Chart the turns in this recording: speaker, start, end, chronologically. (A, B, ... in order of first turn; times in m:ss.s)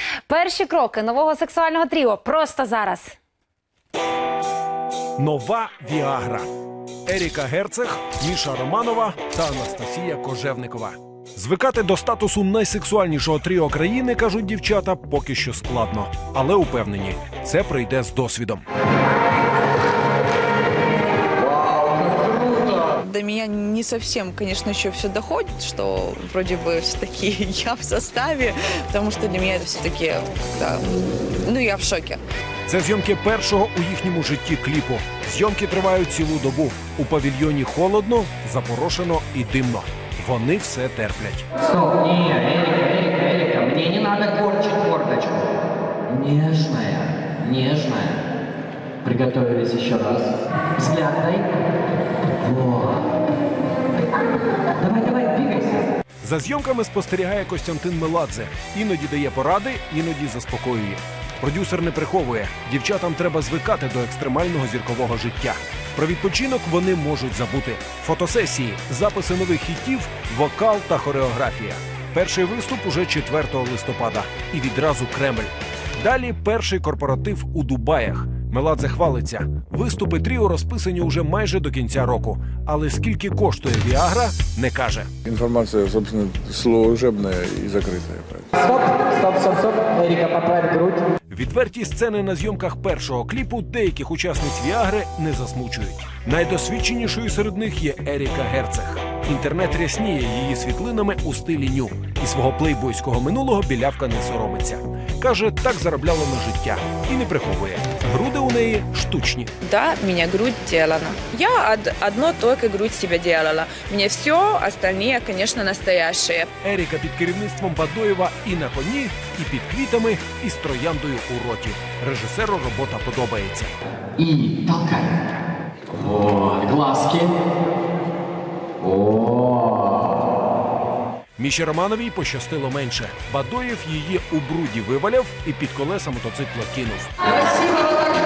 0:00.3-0:03.2 A
0:05.2-0:06.4 B
0:07.0-0:18.6 B
0:21.6-0:32.2 C
0:32.7-0:41.5 B
0:41.6-0:48.2 D
0:49.0-0:51.5 D
0:52.4-0:53.0 D
0:54.8-0:55.9 D
0:56.2-1:25.1 B
1:25.2-1:28.6 E
1:28.7-1:31.0 D
1:31.3-1:49.5 B
1:49.6-1:56.5 C
1:56.6-2:03.7 B
2:04.2-2:05.2 D
2:05.9-2:07.4 D
2:08.8-2:10.1 D
2:11.4-2:17.1 B